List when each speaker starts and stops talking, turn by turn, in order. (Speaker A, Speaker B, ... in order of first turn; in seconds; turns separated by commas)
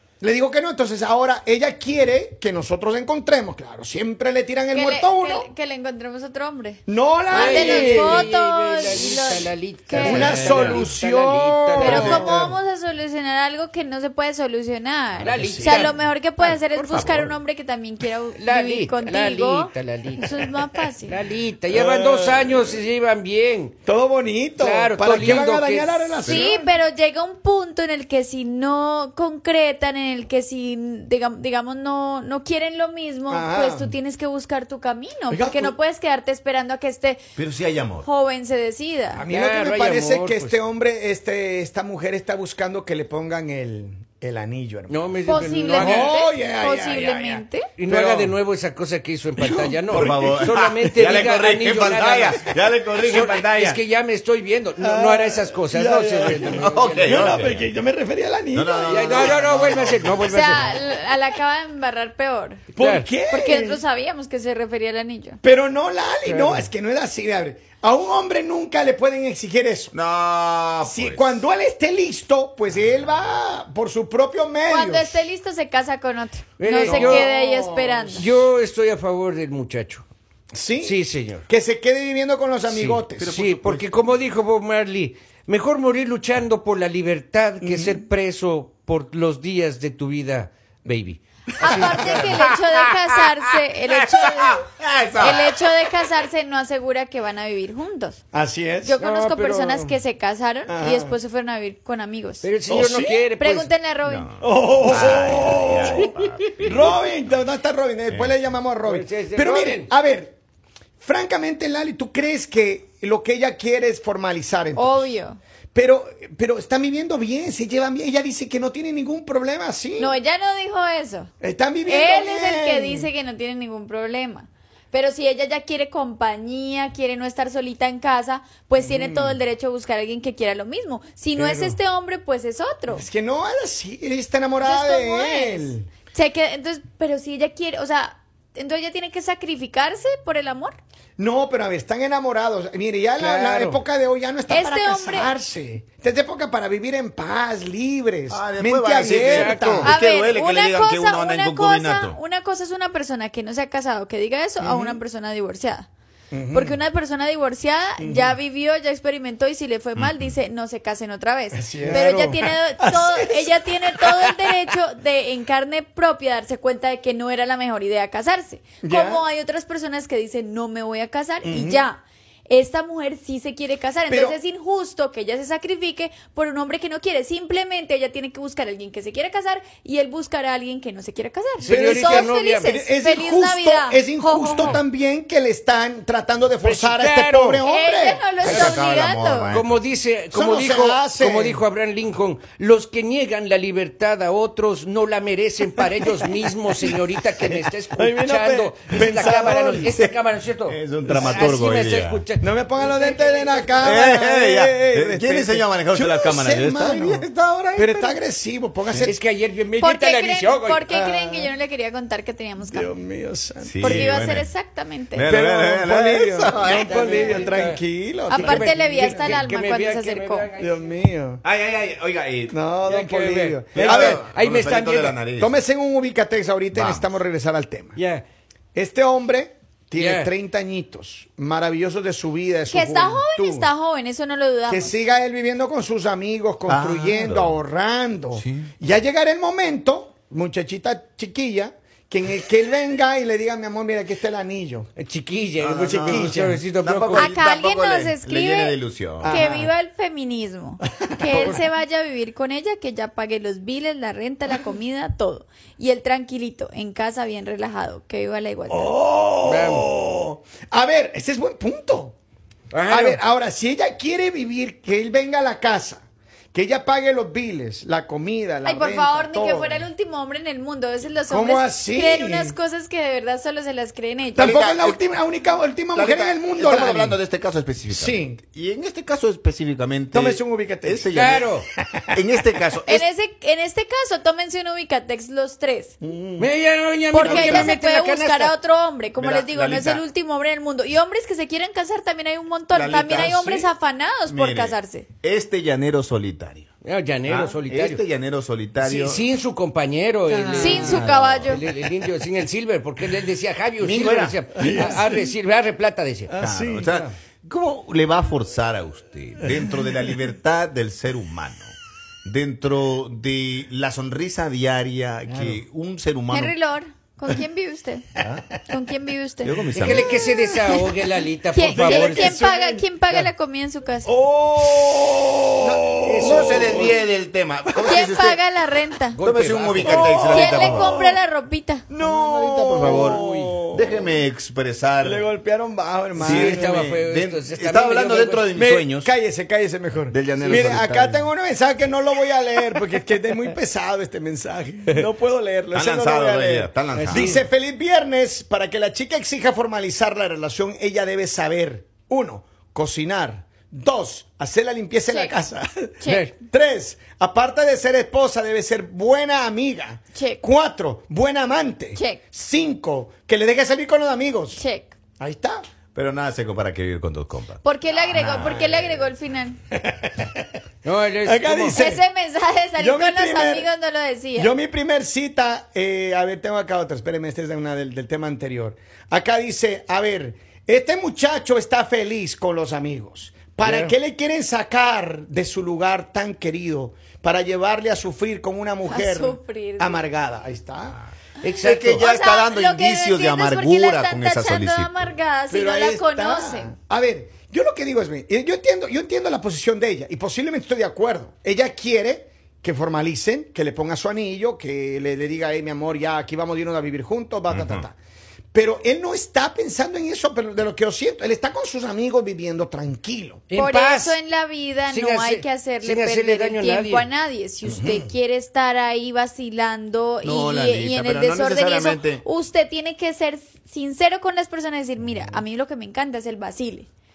Speaker A: 0.2-5.5, Speaker B: 4.7-10.4, Speaker A: 6.9-8.3, Speaker C: 7.3-12.4, Speaker A: 9.9-12.6, Speaker D: 10.4-10.9, Speaker B: 11.8-21.2, Speaker D: 11.9-12.2, Speaker C: 15.2-16.0, Speaker A: 15.3-15.9, Speaker C: 16.8-17.0, Speaker D: 16.9-17.3, Speaker C: 18.4-20.4, Speaker C: 21.1-23.8, Speaker A: 21.7-22.8, Speaker A: 23.9-26.7, Speaker C: 24.6-26.2, Speaker B: 26.3-37.2, Speaker A: 33.3-33.9, Speaker A: 35.3-35.8, Speaker D: 37.4-38.1, Speaker B: 38.0-39.3, Speaker A: 39.1-45.1, Speaker C: 39.3-40.6, Speaker C: 44.9-46.1, Speaker B: 45.3-47.7, Speaker A: 45.7-48.4, Speaker C: 47.8-57.6, Speaker A: 49.4-50.4, Speaker D: 49.9-53.8, Speaker A: 54.8-59.4, Speaker D: 56.5-57.6, Speaker D: 58.5-60.2, Speaker C: 58.9-60.7, Speaker B: 60.2-62.7, Speaker A: 62.7-63.8, Speaker C: 62.8-63.1, Speaker B: 63.3-65.4, Speaker A: 65.4-69.9, Speaker C: 66.2-66.7, Speaker D: 69.9-71.4, Speaker A: 70.9-75.2, Speaker B: 74.7-78.3, Speaker C: 76.6-77.3, Speaker A: 76.8-78.2, Speaker C: 78.1-80.0, Speaker A: 80.5-83.3, Speaker C: 80.8-81.5, Speaker C: 82.7-92.0, Speaker D: 83.2-84.0, Speaker A: 87.6-88.0, Speaker B: 91.6-98.2, Speaker A: 91.6-92.4, Speaker D: 92.1-92.7, Speaker D: 94.2-95.6, Speaker A: 98.3-99.0, Speaker B: 98.8-102.5, Speaker C: 99.0-100.0, Speaker A: 100.7-101.2, Speaker C: 102.4-103.7, Speaker A: 102.7-103.3, Speaker B: 103.4-104.3, Speaker D: 104.0-107.4, Speaker A: 104.4-106.1, Speaker A: 106.6-110.3, Speaker D: 108.1-108.4, Speaker C: 108.8-109.9, Speaker A: 111.0-115.1, Speaker B: 114.8-115.4, Speaker A: 115.8-120.2, Speaker B: 120.0-121.3, Speaker A: 121.4-123.1, Speaker B: 121.8-133.1, Speaker A: 128.8-129.4, Speaker A: 131.4-131.8, Speaker A: 132.9-135.9, Speaker B: 134.6-140.8, Speaker A: 141.2-149.9, Speaker C: 143.2-143.8, Speaker B: 144.5-145.3, Speaker D: 148.3-152.2, Speaker C: 149.2-149.9, Speaker B: 149.8-155.9, Speaker A: 154.6-155.0, Speaker A: 156.3-156.8, Speaker B: 156.5-184.8, Speaker A: 158.0-158.4, Speaker D: 160.0-160.3, Speaker A: 161.5-163.7, Speaker A: 168.8-169.2, Speaker A: 171.4-171.9, Speaker A: 174.1-174.4, Speaker C: 181.6-182.8, Speaker A: 181.7-188.2, Speaker C: 186.6-187.7, Speaker B: 187.6-189.5, Speaker D: 188.4-189.8, Speaker C: 188.4-188.8, Speaker C: 189.5-203.9, Speaker A: 190.3-191.6, Speaker A: 196.8-200.0, Speaker D: 200.7-202.2, Speaker A: 201.2-201.5, Speaker A: 202.4-209.2, Speaker D: 203.8-208.2, Speaker C: 209.0-210.8, Speaker B: 209.8-212.9, Speaker A: 210.9-211.5, Speaker A: 212.6-214.2, Speaker D: 213.6-214.5, Speaker B: 213.8-215.3, Speaker D: 215.2-217.4, Speaker A: 215.2-219.4, Speaker C: 216.8-217.8, Speaker B: 217.1-217.4, Speaker B: 218.3-220.5, Speaker C: 218.3-221.0, Speaker A: 220.6-221.4, Speaker D: 221.4-222.6, Speaker A: 222.5-224.2, Speaker C: 222.8-225.2, Speaker D: 223.8-225.6, Speaker A: 225.4-228.0, Speaker D: 226.7-227.1, Speaker C: 228.0-228.2, Speaker A: 228.8-233.7, Speaker C: 230.0-230.3, Speaker B: 232.7-234.9, Speaker A: 234.7-244.9, Speaker D: 236.7-237.6, Speaker D: 238.4-238.7, Speaker C: 245.0-247.3, Speaker D: 245.6-249.4, Speaker A: 245.8-246.6, Speaker B: 247.2-258.9, Speaker A: 249.2-249.7, Speaker A: 251.2-251.6, Speaker A: 258.7-262.2, Speaker C: 259.4-259.9, Speaker C: 262.7-263.2, Speaker A: 262.9-266.0, Speaker A: 266.5-269.9, Speaker B: 268.6-274.6, Speaker A: 271.3-272.6, Speaker D: 274.4-275.0, Speaker A: 274.4-277.2, Speaker D: 275.9-281.5, Speaker A: 277.9-278.4, Speaker A: 280.1-281.1, Speaker C: 281.1-281.7, Speaker A: 281.8-282.1, Speaker D: 282.1-283.1, Speaker B: 282.9-285.9, Speaker A: 286.0-286.5, Speaker C: 286.4-288.5, Speaker B: 287.1-295.1, Speaker A: 287.2-287.6, Speaker D: 287.3-287.8, Speaker D: 289.2-290.0, Speaker D: 292.7-293.4, Speaker A: 293.1-293.7, Speaker D: 294.3-296.7, Speaker C: 296.8-298.0, Speaker D: 297.3-299.2, Speaker C: 298.8-306.4, Speaker A: 300.3-301.4, Speaker B: 300.5-301.6, Speaker D: 300.8-301.5, Speaker D: 303.8-304.9, Speaker A: 304.6-305.3, Speaker A: 306.3-307.0, Speaker D: 306.4-311.7, Speaker D: 312.2-316.5, Speaker A: 315.3-315.6, Speaker B: 316.3-318.1, Speaker D: 318.2-318.5, Speaker B: 318.7-320.9, Speaker D: 319.4-320.2, Speaker C: 319.7-322.4, Speaker B: 321.5-324.1, Speaker A: 321.6-322.9, Speaker A: 324.1-327.0, Speaker D: 325.6-328.4, Speaker C: 326.0-327.0, Speaker A: 327.7-328.1, Speaker B: 327.9-329.2, Speaker C: 329.2-330.2, Speaker D: 329.2-330.9, Speaker B: 329.8-331.9, Speaker A: 329.8-331.2, Speaker A: 331.9-334.1, Speaker D: 332.0-335.3, Speaker C: 332.9-333.7, Speaker A: 335.0-336.6, Speaker D: 336.2-339.1, Speaker C: 336.2-338.7, Speaker A: 338.6-364.6, Speaker D: 340.1-341.3, Speaker C: 340.4-340.9, Speaker D: 345.7-347.4, Speaker C: 346.9-347.4, Speaker B: 355.1-355.3, Speaker C: 356.1-356.4, Speaker B: 360.1-360.4, Speaker B: 361.9-362.2, Speaker B: 364.6-364.9, Speaker A: 365.2-365.6, Speaker D: 365.9-369.1, Speaker B: 367.6-369.6, Speaker A: 368.3-368.8, Speaker A: 369.7-370.5, Speaker C: 370.8-371.8, Speaker A: 371.2-372.1, Speaker B: 371.7-374.5, Speaker A: 372.8-373.7, Speaker A: 374.4-391.0, Speaker C: 383.6-383.9, Speaker B: 388.9-390.0, Speaker C: 391.4-392.0, Speaker D: 391.6-395.1, Speaker B: 391.9-396.7, Speaker A: 395.5-408.0, Speaker D: 407.5-407.8, Speaker A: 408.5-413.4, Speaker C: 413.5-414.2, Speaker B: 413.5-426.9, Speaker C: 414.9-417.1, Speaker A: 417.7-418.1, Speaker D: 420.2-422.2